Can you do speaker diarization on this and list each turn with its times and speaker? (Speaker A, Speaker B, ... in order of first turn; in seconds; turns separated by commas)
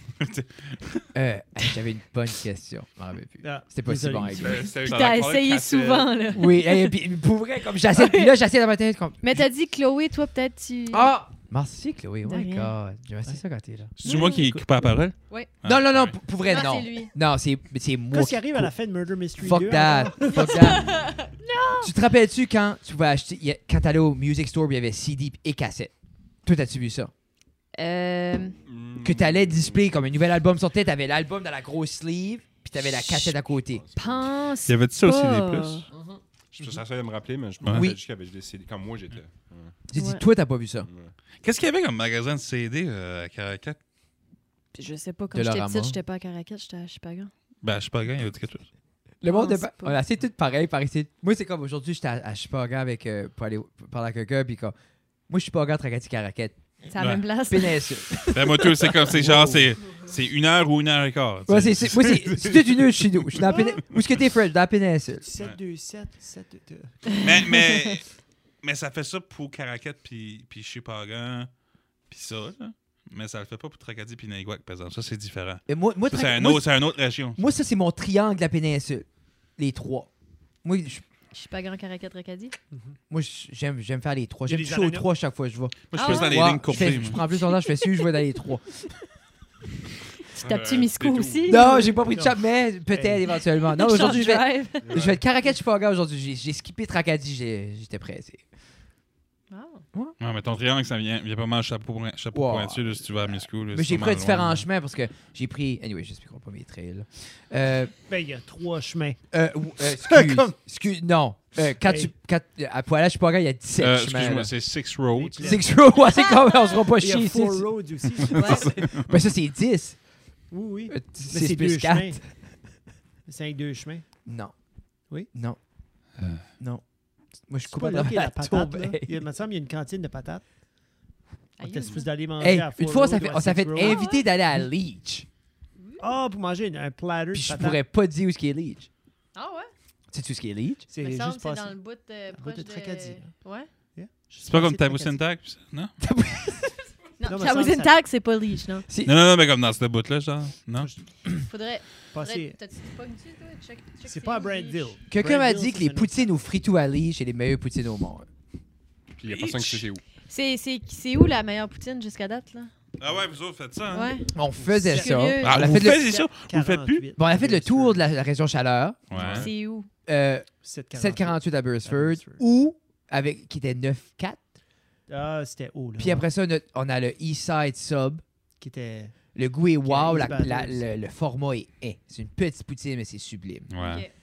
Speaker A: 0.2-1.0, Speaker B: 1.1-4.7, Speaker C: 3.4-4.7, Speaker D: 4.4-6.3, Speaker E: 4.8-7.0, Speaker A: 4.9-5.2, Speaker B: 6.3-9.4, Speaker E: 7.8-8.3, Speaker E: 9.2-11.1, Speaker B: 10.9-13.9, Speaker E: 12.2-12.7, Speaker A: 14.0-16.2, Speaker C: 14.0-14.6, Speaker E: 14.0-14.5, Speaker B: 15.6-18.7, Speaker E: 16.4-17.1, Speaker C: 18.1-20.6, Speaker B: 19.4-21.0, Speaker E: 20.3-21.9, Speaker B: 21.8-25.9, Speaker B: 26.4-27.1, Speaker E: 27.7-28.6, Speaker D: 28.6-29.9, Speaker B: 29.0-33.8, Speaker E: 32.7-33.4, Speaker D: 33.6-34.3, Speaker E: 34.0-35.8, Speaker A: 34.6-35.9, Speaker D: 35.9-39.7, Speaker A: 37.6-37.9, Speaker B: 37.7-38.0, Speaker B: 39.9-40.9, Speaker E: 40.0-40.2, Speaker D: 40.8-41.1, Speaker A: 41.4-43.8, Speaker E: 44.7-47.3, Speaker B: 45.3-46.0, Speaker A: 47.6-48.6, Speaker B: 49.2-54.7, Speaker E: 49.3-50.0, Speaker B: 55.3-56.5, Speaker E: 56.9-58.7, Speaker B: 57.5-59.6, Speaker A: 58.3-63.5, Speaker B: 61.5-65.3, Speaker C: 63.5-63.8, Speaker C: 65.2-67.2, Speaker A: 67.2-68.1, Speaker A: 68.6-71.5, Speaker A: 72.1-77.4, Speaker B: 75.7-76.7, Speaker B: 77.3-79.0, Speaker B: 79.6-80.1, Speaker B: 80.6-81.0, Speaker E: 81.3-82.5, Speaker C: 82.7-83.0, Speaker B: 83.1-88.6, Speaker C: 84.5-85.1, Speaker A: 85.9-87.2, Speaker E: 85.9-88.1, Speaker E: 90.3-92.0, Speaker D: 90.4-91.6, Speaker B: 91.5-98.4, Speaker C: 92.1-93.2, Speaker E: 93.6-94.8, Speaker D: 94.8-95.2, Speaker E: 99.5-99.8, Speaker A: 100.2-104.6, Speaker B: 102.3-103.1, Speaker B: 103.7-107.9, Speaker C: 108.1-109.2, Speaker B: 109.3-114.5, Speaker C: 109.8-110.5, Speaker C: 111.8-112.1, Speaker A: 113.8-115.6, Speaker C: 115.1-115.7, Speaker B: 115.4-117.7, Speaker E: 116.1-116.8, Speaker C: 117.0-118.8, Speaker B: 118.3-120.0, Speaker E: 118.3-118.7, Speaker A: 118.4-119.1, Speaker C: 120.5-122.2, Speaker B: 120.9-122.3, Speaker C: 123.2-124.0, Speaker B: 124.2-124.5, Speaker B: 125.3-125.6, Speaker A: 126.2-126.4, Speaker B: 127.5-129.2, Speaker C: 127.7-130.4, Speaker E: 131.6-132.1, Speaker C: 131.6-134.0, Speaker B: 132.4-135.2, Speaker E: 133.8-134.3, Speaker E: 135.8-136.1, Speaker C: 136.0-137.8, Speaker B: 137.3-138.9, Speaker E: 139.3-139.7, Speaker B: 140.1-140.8, Speaker C: 140.9-141.7, Speaker E: 141.0-143.7, Speaker C: 142.3-143.3, Speaker C: 143.9-145.2, Speaker A: 144.4-145.9, Speaker B: 146.0-146.8, Speaker E: 147.2-148.8, Speaker C: 147.2-147.9, Speaker B: 148.9-149.1, Speaker A: 149.0-150.9, Speaker E: 151.5-154.9, Speaker C: 152.1-152.6, Speaker C: 154.0-156.2, Speaker B: 155.1-158.3, Speaker D: 159.2-160.0, Speaker A: 159.2-159.9, Speaker E: 160.3-162.7, Speaker A: 163.0-164.1, Speaker E: 163.9-164.2, Speaker B: 164.3-166.1, Speaker E: 164.8-165.6, Speaker C: 164.8-168.0, Speaker A: 165.4-167.0, Speaker B: 167.2-169.1, Speaker A: 169.1-169.5, Speaker D: 169.1-169.5, Speaker E: 169.1-169.9, Speaker B: 170.1-174.4, Speaker C: 170.6-172.4, Speaker C: 175.1-176.2, Speaker B: 176.0-178.2, Speaker C: 178.6-179.2, Speaker B: 179.3-183.7, Speaker C: 179.8-180.9, Speaker A: 183.7-184.0, Speaker E: 183.8-184.1